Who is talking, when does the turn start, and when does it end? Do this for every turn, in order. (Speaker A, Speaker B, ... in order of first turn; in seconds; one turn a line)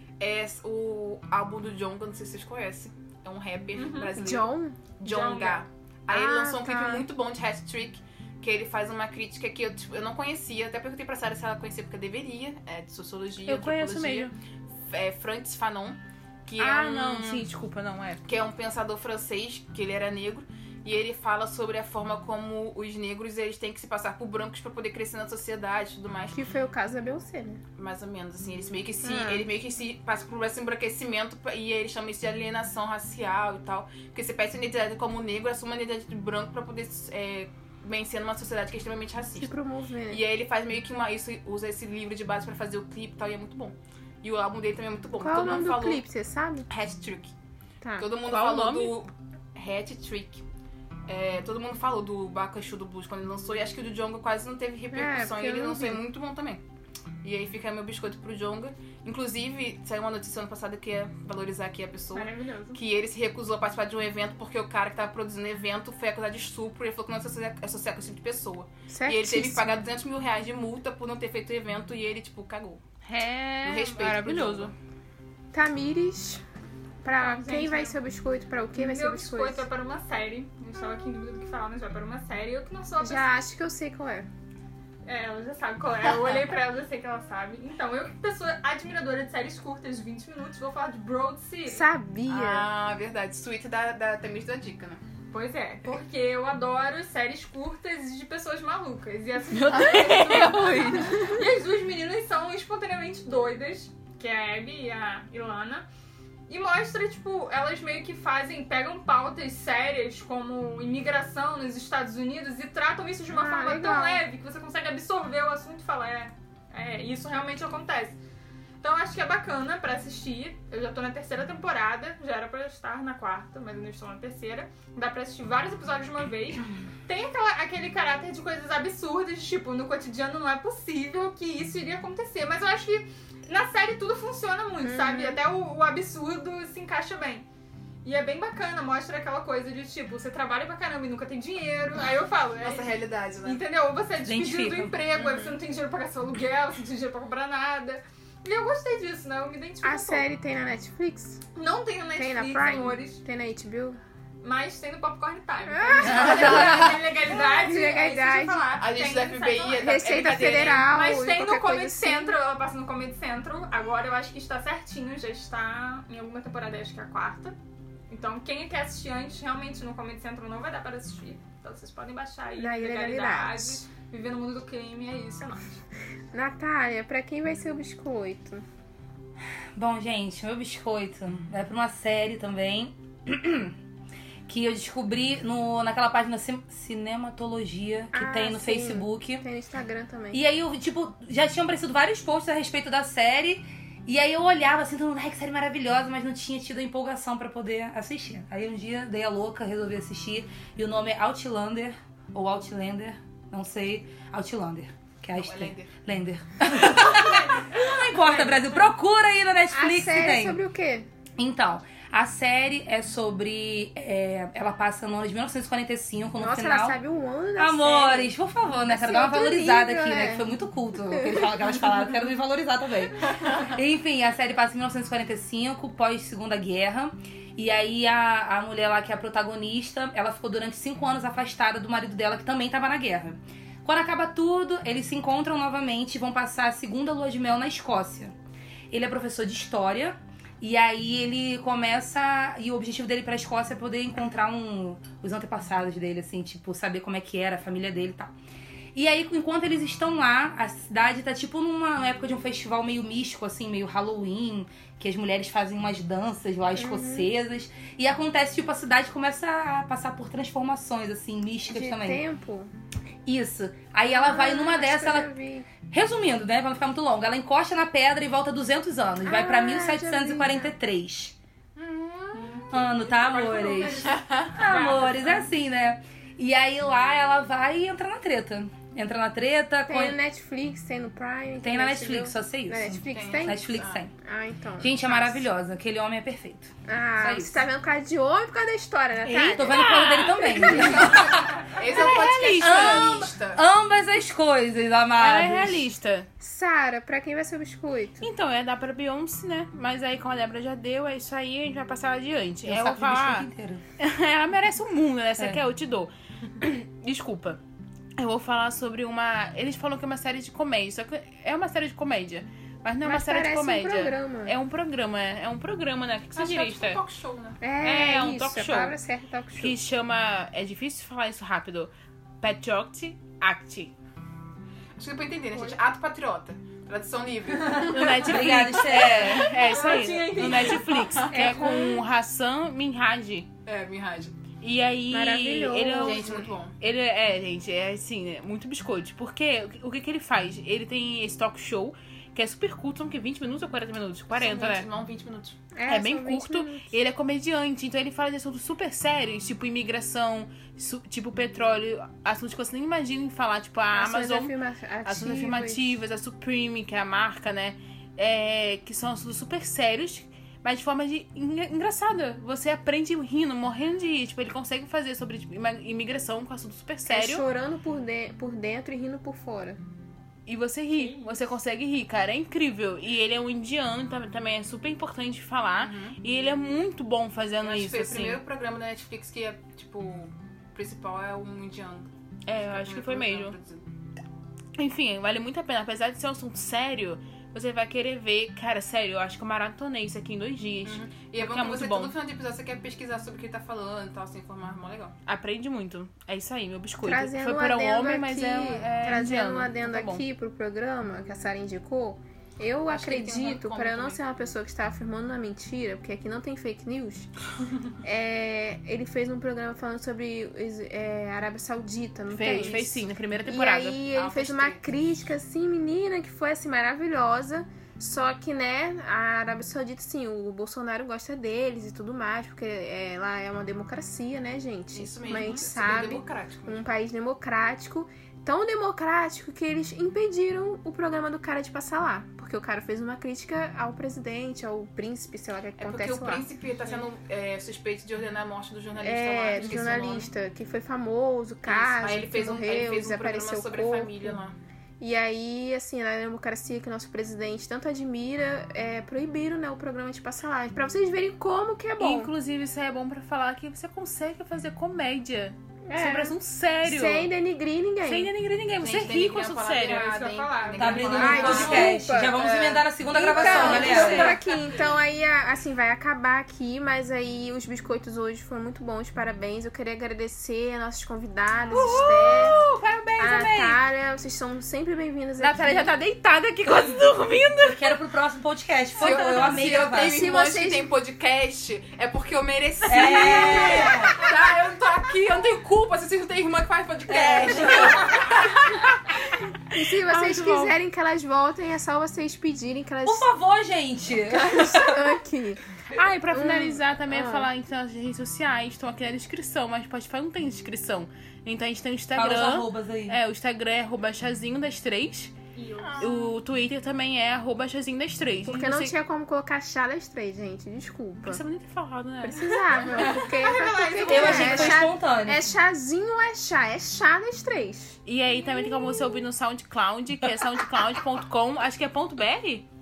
Speaker A: 0.2-14.3
Speaker B: 3.8-4.2
Speaker C: 4.2-4.8
Speaker B: 5.0-5.6
Speaker C: 6.1-7.0
Speaker D: 13.4-14.3
Speaker A: 14.9-17.4
Speaker D: 16.6-18.2
Speaker A: 18.2-26.4
Speaker C: 26.3-27.6
Speaker A: 27.8-39.5
Speaker C: 29.0-29.5
Speaker C: 39.4-40.2
Speaker A: 40.1-46.0
Speaker C: 45.2-46.7
Speaker A: 46.7-47.3
Speaker C: 47.8-48.1
Speaker A: 48.0-50.4
Speaker D: 48.2-49.0
Speaker A: 51.1-56.6
Speaker C: 54.9-56.0
Speaker A: 57.2-72.8
Speaker B: 62.1-62.8
Speaker C: 68.9-69.8
Speaker D: 73.0-74.7
Speaker A: 73.6-74.7
Speaker C: 75.5-76.4
Speaker C: 77.0-79.7
Speaker B: 77.1-78.0
Speaker B: 78.7-83.3
Speaker C: 83.0-84.3
Speaker B: 85.0-91.8
Speaker C: 91.7-92.7
Speaker A: 92.3-95.0
Speaker B: 95.3-105.8
Speaker D: 99.5-101.3
Speaker B: 106.5-118.2
Speaker C: 113.3-114.2
Speaker B: 118.8-137.4
Speaker C: 134.8-135.4
Speaker B: 138.0-150.2
Speaker A: 142.6-143.6
Speaker E: 144.2-145.0
Speaker C: 145.2-145.5
Speaker C: 149.8-151.4
Speaker B: 151.5-153.2
Speaker C: 152.2-154.0
Speaker B: 154.4-159.9
Speaker C: 155.7-158.7
Speaker E: 156.0-156.7
Speaker A: 156.3-156.9
Speaker A: 158.8-160.9
Speaker C: 159.8-162.3
Speaker B: 160.9-167.6
Speaker B: 168.1-175.8
Speaker C: 172.6-173.8
Speaker C: 176.3-178.6
Speaker E: 179.8-183.7
Speaker E: 184.4-189.4
Speaker C: 188.1-190.4
Speaker E: 190.3-210.6
Speaker A: 205.3-205.9
Speaker B: 206.9-208.8
Speaker C: 209.7-211.1
Speaker E: 211.4-217.0
Speaker C: 216.4-218.3
Speaker E: 217.6-238.3
Speaker C: 218.8-220.5
Speaker C: 221.1-221.4
Speaker E: 238.9-248.3
Speaker E: 248.9-262.2
Speaker C: 256.7-257.3
Speaker C: 261.7-262.7
Speaker E: 263.2-265.3
Speaker C: 264.1-265.7
Speaker E: 265.9-271.3
Speaker C: 269.2-270.7
Speaker A: 271.8-274.8
Speaker B: 272.3-275.5
Speaker E: 272.7-280.2
Speaker C: 279.9-285.4
Speaker E: 281.6-284.1
Speaker A: 283.1-284.0
Speaker E: 284.8-287.5
Speaker C: 286.9-289.9
Speaker E: 289.2-291.6
Speaker D: 289.6-291.1
Speaker C: 290.5-291.1
Speaker A: 290.6-293.6
Speaker D: 291.8-293.1
Speaker E: 292.6-295.9
Speaker D: 295.1-296.3
Speaker C: 296.4-298.3
Speaker D: 298.2-303.5
Speaker E: 302.6-303.8
Speaker D: 304.0-307.6
Speaker D: 308.2-317.0
Speaker C: 313.0-314.6
Speaker A: 316.4-317.6
Speaker C: 317.6-319.8
Speaker D: 317.8-319.0
Speaker D: 319.5-323.9
Speaker A: 325.0-331.7
Speaker B: 325.5-325.8
Speaker E: 327.5-329.5
Speaker D: 327.8-333.5
Speaker B: 329.1-331.9
Speaker C: 331.4-332.0
Speaker A: 333.6-334.4
Speaker D: 334.6-344.9
Speaker C: 335.1-336.5
Speaker A: 336.0-336.8
Speaker A: 344.3-345.6
Speaker C: 345.7-346.9
Speaker D: 345.9-367.4
Speaker C: 353.9-355.9
Speaker C: 367.1-369.8
Speaker D: 370.4-378.4
Speaker B: 370.9-371.4
Speaker A: 375.8-376.2
Speaker A: 377.6-382.1
Speaker D: 382.4-383.6
Speaker A: 382.7-383.8
Speaker D: 384.8-392.1
Speaker A: 390.8-395.2
Speaker D: 395.2-400.2
Speaker C: 397.0-407.3
Speaker A: 402.9-404.2
Speaker C: 408.0-436.4
Speaker D: 412.3-414.7
Speaker A: 414.1-414.8
Speaker A: 424.9-426.9
Speaker A: 435.8-440.3
Speaker C: 439.0-444.4
Speaker B: 439.6-439.9
Speaker A: 441.6-444.6
Speaker C: 445.0-452.3
Speaker D: 452.0-457.3
Speaker C: 455.9-458.3
Speaker D: 458.0-460.1
Speaker A: 458.8-461.9
Speaker B: 459.8-462.0
Speaker E: 460.8-464.4
Speaker C: 461.1-472.6
Speaker D: 463.1-464.4
Speaker D: 471.7-473.8
Speaker C: 473.2-475.9
Speaker D: 475.4-477.9
Speaker E: 477.6-480.2
Speaker A: 479.0-488.7
Speaker B: 479.0-479.4
Speaker C: 479.8-480.9
Speaker D: 482.9-484.1
Speaker E: 482.9-484.1
Speaker E: 487.1-488.2
Speaker D: 487.5-488.1
Speaker C: 489.7-493.3
Speaker D: 489.9-490.7
Speaker E: 493.0-495.1
Speaker C: 494.3-495.6
Speaker D: 495.9-505.3
Speaker C: 496.3-497.5
Speaker E: 502.1-503.2
Speaker B: 505.5-506.1
Speaker D: 506.0-508.9
Speaker C: 508.4-511.4
Speaker D: 511.2-512.9
Speaker C: 512.2-518.0
Speaker B: 512.7-514.8
Speaker E: 514.1-515.5
Speaker D: 518.0-522.7